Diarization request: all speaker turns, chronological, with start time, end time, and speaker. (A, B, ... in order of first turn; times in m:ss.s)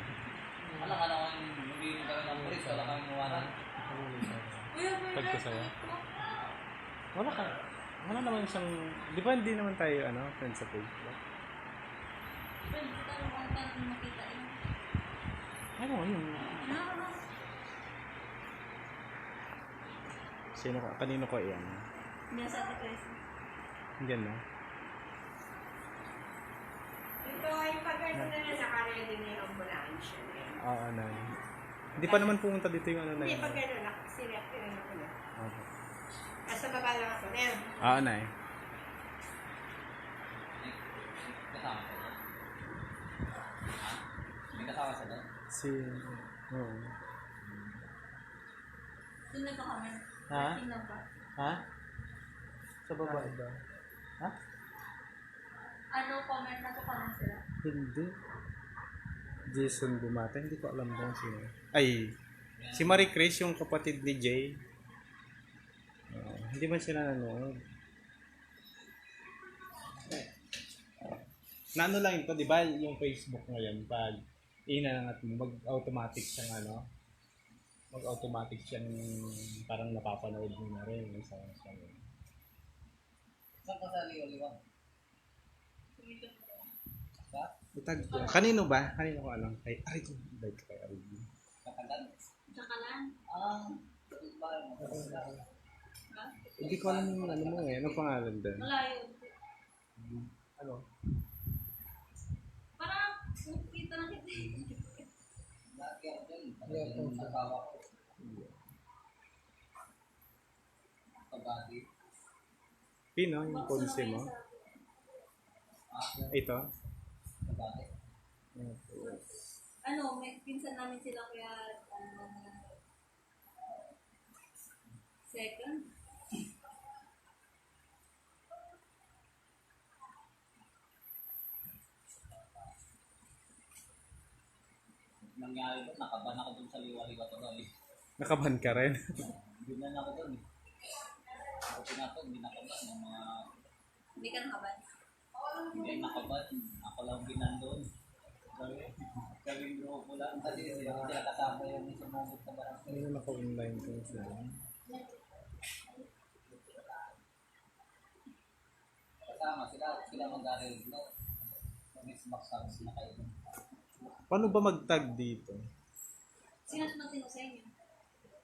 0:00.6-0:01.0 A
0:00.8-0:03.5 B
0:02.3-0:05.7 A
0:04.7-0:06.1 C
0:07.2-0:11.2 A
0:12.7-0:14.6 C
0:15.8-0:16.8 A
0:16.5-0:17.2 C
0:20.6-0:21.9 A
0:22.3-0:23.2 C
0:24.0-0:24.4 A
0:27.2-0:30.6 D
0:30.6-0:31.4 A
0:32.0-0:33.6 A
0:32.0-0:32.3 C
0:33.2-0:35.1 D
0:35.4-0:35.7 A
0:36.5-0:37.8 D
0:37.8-0:38.3 A
0:40.6-0:42.2 B
0:44.5-0:45.3 B
0:45.5-0:47.0 A
0:49.3-0:51.0 C
0:50.3-0:50.6 A
0:52.9-0:53.6 A
0:55.9-0:57.4 C
0:57.6-0:58.1 A
0:59.5-1:02.1 A
1:02.6-1:03.1 B
1:02.7-1:04.6 A
1:06.1-1:07.6 A
1:11.8-1:16.9 A
1:17.9-1:22.0 A
1:23.6-1:24.6 B
1:26.0-1:26.7 C
1:27.2-1:27.5 B
1:27.8-1:31.3 A
1:28.0-1:28.6 C
1:31.6-1:32.1 B
1:32.5-1:33.1 C
1:33.3-1:35.4 B
1:34.8-1:35.4 A
1:36.1-1:36.6 C
1:36.6-1:38.2 B
1:36.6-1:38.7 A
1:38.6-1:39.3 C
1:40.0-1:40.8 A
1:42.8-1:45.0 C
1:45.7-1:48.0 B
1:46.7-1:47.4 A
1:48.2-1:48.6 A
1:51.3-1:51.8 B
1:53.2-1:54.3 A
1:53.4-1:54.8 C
1:55.9-1:56.4 B
1:56.3-1:56.6 A
1:57.4-1:57.9 B
1:58.6-1:59.2 A
1:59.0-2:02.7 C
2:05.3-2:05.9 C
2:15.4-2:17.7 B
2:18.2-2:19.3 A
2:19.3-2:20.4 B
2:21.6-2:23.4 B
2:24.2-2:24.9 C
2:25.6-2:26.1 C
2:25.7-2:27.9 B
2:28.6-2:33.1 B
2:30.5-2:31.2 A
2:32.9-2:34.4 A
2:39.2-2:41.0 B
2:41.9-2:43.4 B
2:44.3-2:45.6 A
2:46.7-2:47.7 C